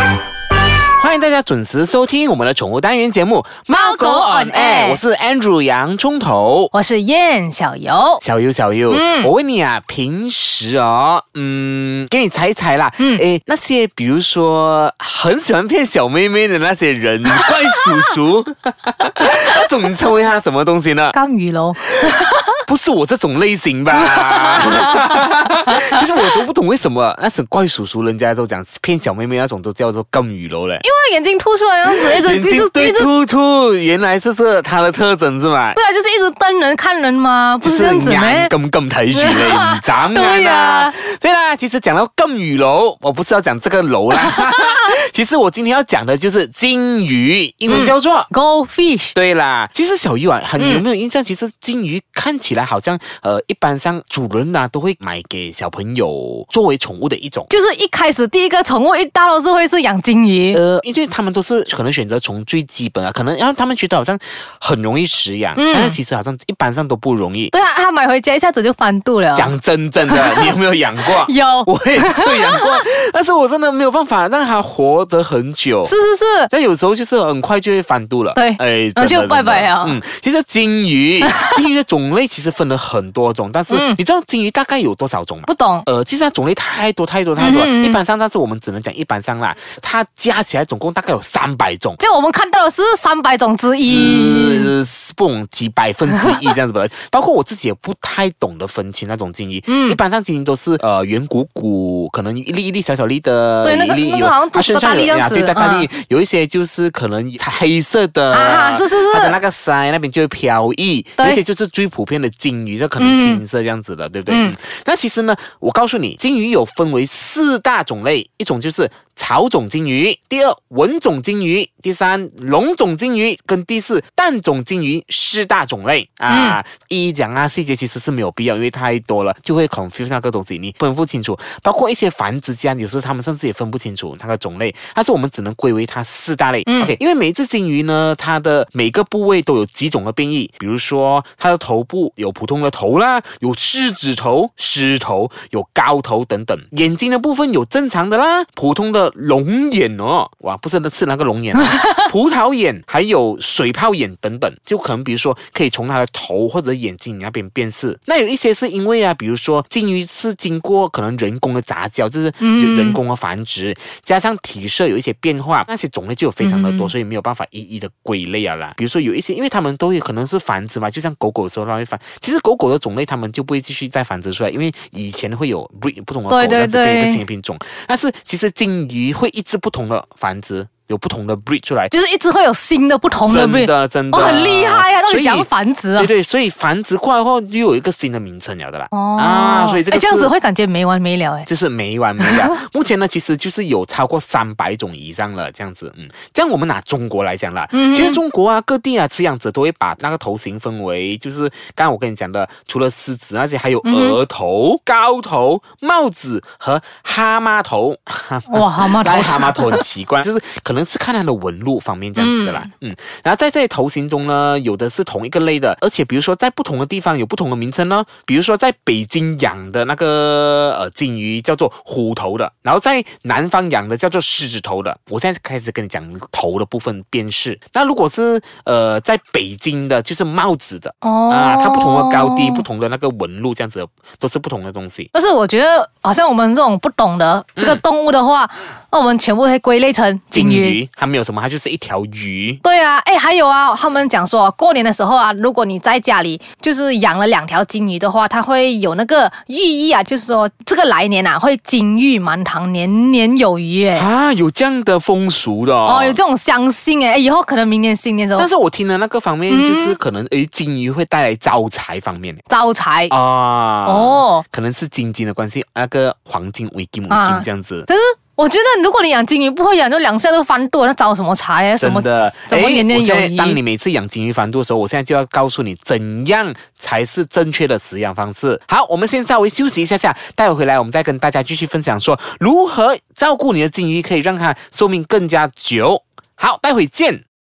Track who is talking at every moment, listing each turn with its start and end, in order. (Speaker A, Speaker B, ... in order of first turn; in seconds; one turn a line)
Speaker A: 0.9-6.7
Speaker B: 3.7-5.0
Speaker B: 6.7-8.2
Speaker A: 8.2-21.1
Speaker B: 8.9-9.3
Speaker B: 13.0-13.2
Speaker B: 17.4-17.9
Speaker B: 21.1-22.5
Speaker A: 22.6-30.9
Speaker B: 23.9-26.4
Speaker B: 30.8-33.1
Speaker A: 31.8-35.8
Speaker B: 35.7-38.5
Speaker A: 37.6-48.3
Speaker B: 39.1-40.9
Speaker B: 44.1-44.8
Speaker B: 47.7-49.1
Speaker A: 49.1-57.5
Speaker B: 50.6-50.8
Speaker B: 57.5-60.6
Speaker A: 60.5-67.5
Speaker B: 65.6-66.0
Speaker B: 67.5-69.5
Speaker A: 69.3-75.9
Speaker B: 70.1-70.5
Speaker B: 71.2-72.9
Speaker B: 75.8-76.5
Speaker A: 76.5-92.0
Speaker B: 78.3-80.0
Speaker B: 81.2-81.6
Speaker B: 83.7-84.0
Speaker B: 85.5-85.9
Speaker B: 87.4-88.0
Speaker B: 92.0-94.7
Speaker A: 93.8-181.9
Speaker B: 96.1-96.4
Speaker B: 99.7-100.0
Speaker B: 103.6-105.9
Speaker B: 108.3-109.4
Speaker B: 113.0-113.4
Speaker B: 114.3-114.5
Speaker B: 126.3-126.6
Speaker B: 136.7-136.9
Speaker B: 162.4-163.0
Speaker B: 166.4-166.9
Speaker B: 176.3-177.2
Speaker B: 181.9-186.1
Speaker A: 183.2-190.3
Speaker B: 188.9-191.5
Speaker A: 191.4-235.1
Speaker B: 192.2-192.5
Speaker B: 197.7-198.2
Speaker B: 203.8-204.2
Speaker B: 208.5-209.8
Speaker B: 212.2-212.7
Speaker B: 231.0-232.6
Speaker B: 235.1-240.8
Speaker A: 240.3-242.6
Speaker B: 242.6-254.1
Speaker A: 253.9-256.2
Speaker B: 255.8-258.5
Speaker A: 258.4-262.4
Speaker B: 259.5-260.0
Speaker B: 262.5-263.1
Speaker A: 263.1-267.9
Speaker B: 263.8-264.4
Speaker B: 267.1-273.6
Speaker A: 271.8-287.2